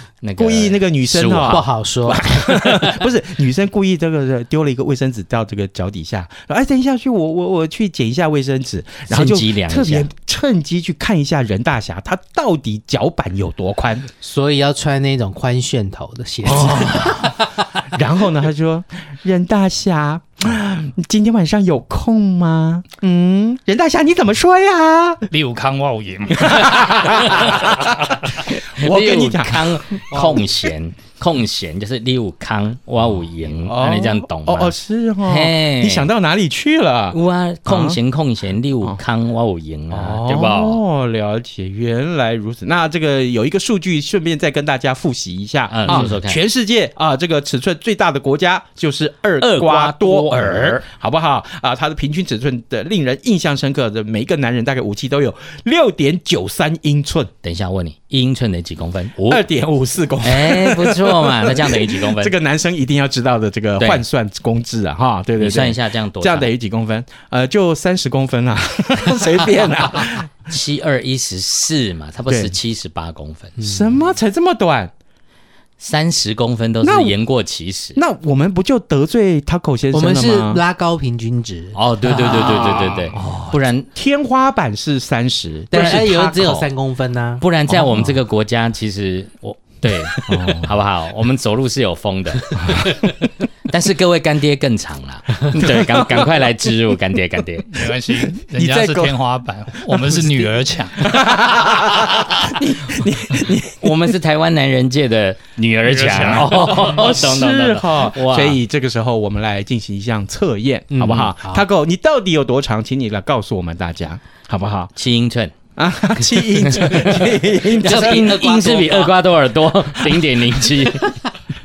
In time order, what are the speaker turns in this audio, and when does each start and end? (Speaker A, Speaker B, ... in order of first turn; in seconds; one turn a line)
Speaker A: 0.2-1.7
Speaker B: 0.4-14.1
Speaker C: 1.5-2.5
Speaker A: 9.1-10.1
Speaker C: 14.2-17.4
Speaker B: 16.4-25.3
Speaker D: 25.3-27.1
Speaker B: 26.4-30.7
Speaker A: 28.5-36.1
Speaker B: 33.6-38.0
Speaker A: 37.1-40.8
Speaker B: 39.9-57.3
Speaker A: 45.7-46.4
Speaker A: 49.4-50.9
Speaker A: 57.4-59.4
Speaker B: 59.3-70.3
Speaker A: 60.2-62.3
Speaker A: 63.8-64.0
Speaker A: 65.4-66.5
Speaker A: 70.5-73.6
Speaker B: 72.3-72.6
Speaker C: 73.6-74.0
Speaker B: 73.6-74.9
Speaker A: 75.8-78.0
Speaker B: 76.8-77.2
Speaker B: 78.0-80.6
Speaker C: 79.9-82.7
Speaker A: 81.7-83.9
Speaker B: 82.2-86.7
Speaker C: 85.7-87.4
Speaker A: 85.8-86.0
Speaker A: 87.4-93.1
Speaker B: 87.7-88.2
Speaker B: 90.3-90.7
Speaker A: 93.7-97.7
Speaker D: 97.7-101.1
Speaker B: 98.2-99.1
Speaker B: 99.8-100.3
Speaker B: 101.0-104.2
Speaker A: 103.8-108.6
Speaker D: 105.8-107.1
Speaker B: 106.7-114.9
Speaker C: 110.9-111.7
Speaker A: 115.0-115.5
Speaker B: 115.8-118.5
Speaker C: 116.2-116.5
Speaker A: 116.7-121.2
Speaker C: 117.8-119.1